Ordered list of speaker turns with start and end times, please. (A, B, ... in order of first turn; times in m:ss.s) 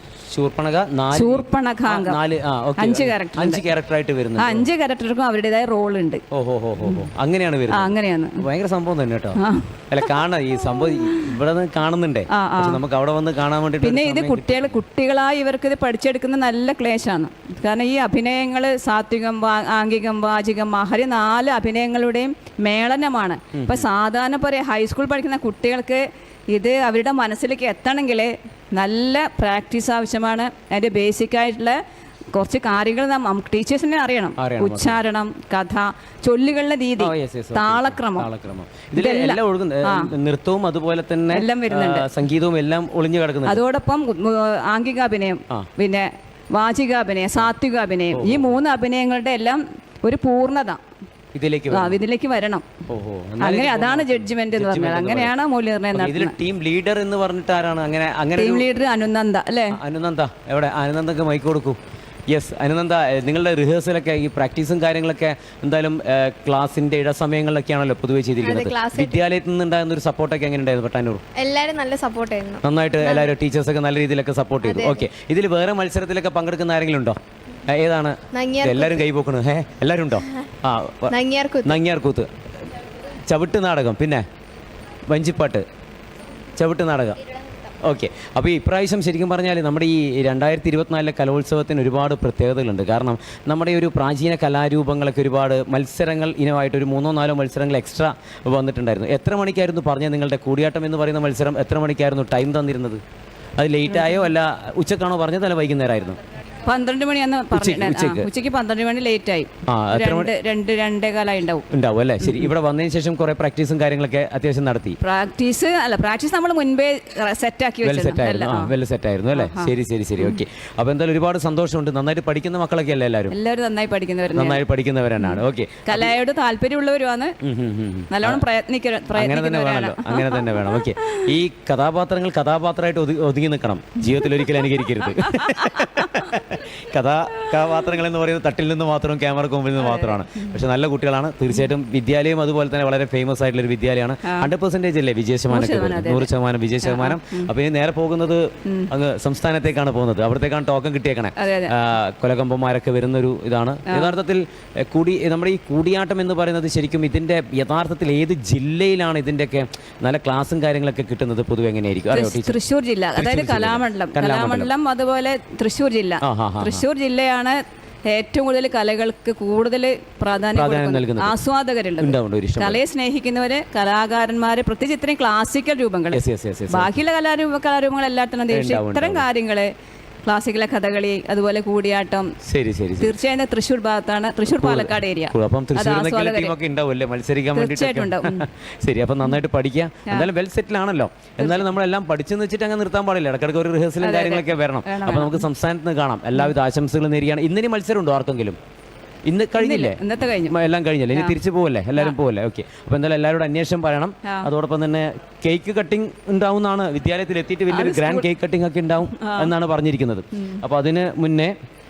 0:00.3-0:04.7 A
0:01.1-0:02.2 B
0:02.8-0:03.7 B
0:04.4-0:06.2 B
0:06.3-0:14.8 A
0:07.7-0:08.4 B
0:09.4-0:09.7 B
0:12.3-0:12.8 B
0:13.8-0:31.8 B
0:23.5-0:23.8 A
0:32.3-0:38.3 B
0:34.4-0:35.0 A
0:37.0-0:43.6 A
0:38.9-0:40.1 B
0:41.3-0:42.1 B
0:43.4-0:50.8 B
0:48.1-0:48.6 A
0:51.3-0:52.0 A
0:51.7-0:52.6 B
0:52.9-0:55.3 A
0:53.4-0:56.3 B
0:55.9-0:58.7 A
0:58.4-0:59.8 B
0:59.7-1:01.8 A
1:02.3-1:11.2 A
1:08.4-1:09.2 C
1:11.4-1:13.3 C
1:12.6-1:22.3 A
1:14.6-1:15.0 C
1:18.3-1:19.0 C
1:21.1-1:21.8 C
1:23.1-1:24.2 A
1:25.1-1:25.6 A
1:26.6-1:27.2 A
1:27.8-1:43.0 A
1:43.6-1:46.2 A
1:43.9-1:44.2 B
1:46.6-1:51.7 B
1:47.5-1:48.2 A
1:49.6-1:50.3 A
1:51.7-1:55.0 A
1:52.2-1:52.5 B
1:55.0-1:58.7 B
1:57.8-2:03.3 A
1:59.3-2:00.4 B
2:03.3-2:04.6 B
2:04.3-2:06.1 A
2:05.2-2:07.4 B
2:07.4-2:08.4 A
2:08.1-2:11.3 B
2:09.1-2:42.6 A
2:14.2-2:14.5 B
2:15.0-2:16.3 B
2:19.8-2:20.5 B
2:25.5-2:26.3 B
2:26.8-2:27.5 B
2:31.4-2:31.8 B
2:42.1-2:59.7 B
2:43.2-2:44.7 A
2:46.2-2:46.8 A
2:50.5-2:51.4 A
2:52.0-2:52.8 A
2:56.1-2:56.9 A
2:58.5-2:59.2 A
3:00.2-3:02.3 B
3:02.4-3:03.1 A
3:03.0-3:06.6 B
3:04.5-3:18.6 A
3:07.5-3:08.5 B
3:14.0-3:15.4 B
3:19.3-3:31.5 A
3:19.6-3:20.6 B
3:21.1-3:21.4 B
3:27.7-3:28.2 B
3:29.2-3:29.5 B